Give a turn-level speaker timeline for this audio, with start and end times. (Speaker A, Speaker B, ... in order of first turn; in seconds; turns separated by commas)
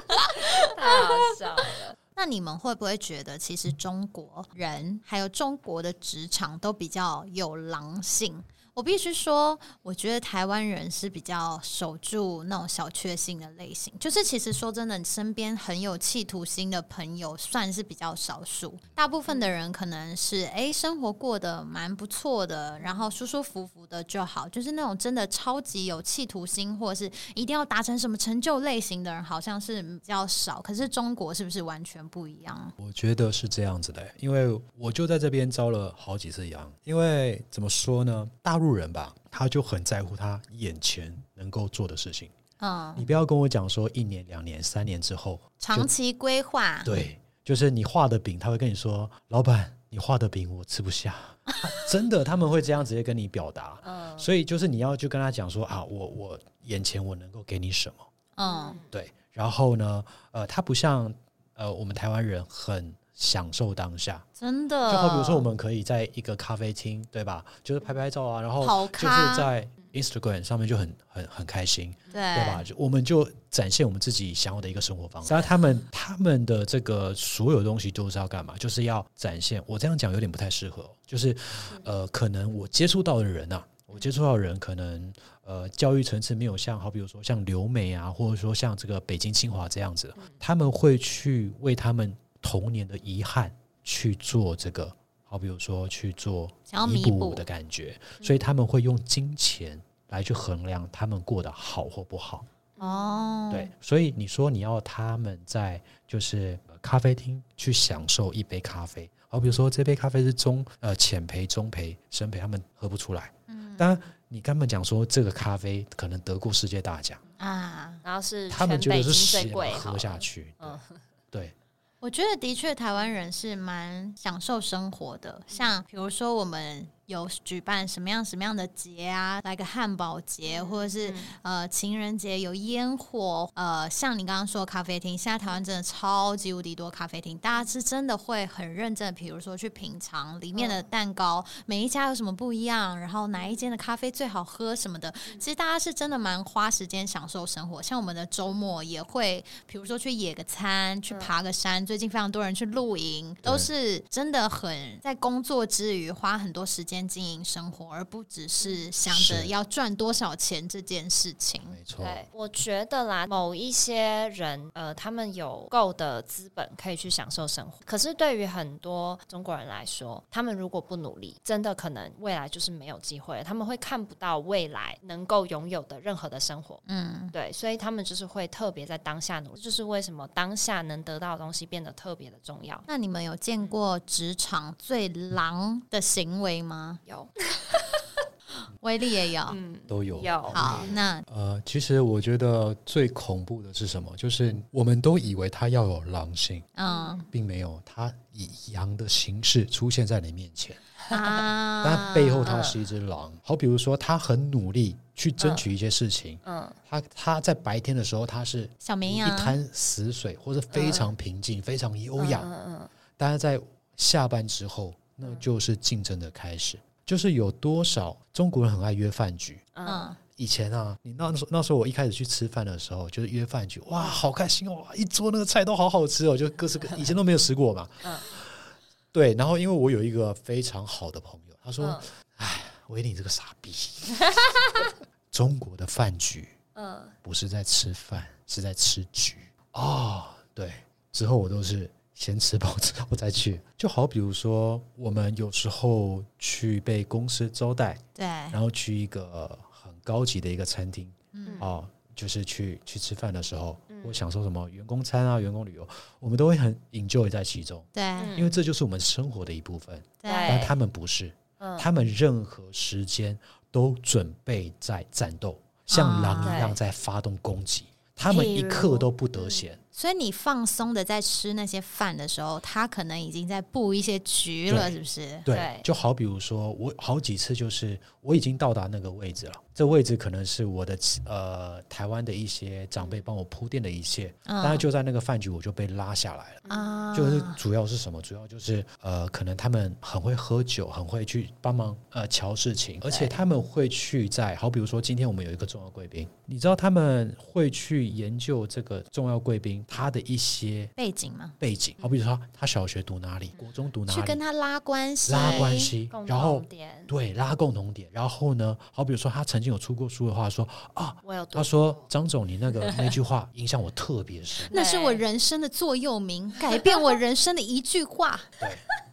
Speaker A: 0.2-1.9, Speaker B: 0.5-1.1, Speaker B: 2.1-32.7, Speaker C: 32.8-42.3, Speaker B: 42.6-43.0, Speaker C: 43.0-45.9, Speaker B: 45.6-46.9, Speaker C: 46.8-58.1, Speaker A: 53.8-54.3, Speaker B: 58.4-58.8, Speaker A: 58.4-58.9, Speaker C: 58.9-64.2, Speaker B: 64.4-65.5, Speaker C: 64.9-102.4, Speaker B: 68.6-69.5, Speaker B: 72.1-72.6, Speaker A: 90.2-90.4, Speaker B: 96.7-97.4, Speaker A: 102.8-103.2, Speaker B: 102.8-103.7, Speaker C: 103.5-117.2, Speaker B: 113.5-113.9, Speaker B: 117.4-118.0, Speaker A: 118.0-121.0, Speaker C: 118.5-120.8, Speaker B: 122.0-161.8, Speaker A: 130.4-131.3, Speaker A: 140.5-140.8, Speaker A: 143.4-143.7, Speaker C: 153.4-153.7, Speaker C: 159.1-159.5, Speaker C: 161.6-162.2, Speaker A: 162.0-176.8, Speaker B: 176.8-177.3, Speaker A: 177.3-182.8, Speaker B: 182.9-187.0, Speaker A: 187.1-188.0, Speaker B: 188.8-189.6, Speaker A: 189.5-190.9, Speaker C: 189.9-196.7, Speaker B: 190.5-191.2, Speaker B: 196.7-197.2, Speaker A: 196.8-197.2, Speaker C: 197.3-200.8, Speaker A: 201.1-201.4, Speaker B: 201.1-202.7, Speaker C: 201.8-212.5, Speaker A: 202.4-202.8, Speaker A: 205.4-205.6, Speaker A: 206.4-206.8, Speaker B: 208.8-209.6, Speaker A: 210.7-211.1, Speaker A: 212.2-212.9, Speaker C: 213.2-219.7, Speaker A: 219.7-220.1, Speaker B: 219.8-220.2, Speaker C: 220.4-234.3, Speaker A: 231.8-232.1, Speaker A: 234.3-234.9, Speaker C: 235.3-236.5, Speaker A: 236.7-237.1, Speaker C: 237.2-269.8, Speaker B: 248.2-248.6, Speaker B: 251.3-251.6, Speaker A: 253.9-254.2, Speaker B: 257.9-258.3, Speaker A: 258.1-258.5, Speaker B: 260.2-260.7, Speaker A: 260.2-260.7, Speaker A: 261.6-261.9, Speaker B: 265.9-266.7, Speaker A: 266.4-266.8, Speaker B: 268.3-269.1, Speaker B: 269.9-275.4, Speaker C: 274.7-300.9, Speaker A: 275.5-275.9, Speaker A: 283.0-283.2, Speaker B: 284.5-284.9, Speaker A: 286.6-286.9, Speaker B: 286.7-287.6, Speaker B: 301.0-301.6, Speaker C: 301.6-304.4, Speaker B: 304.1-305.9, Speaker C: 305.3-314.7, Speaker A: 305.4-307.1, Speaker A: 311.2-312.0, Speaker A: 312.9-313.1, Speaker A: 314.7-315.2, Speaker B: 314.7-318.5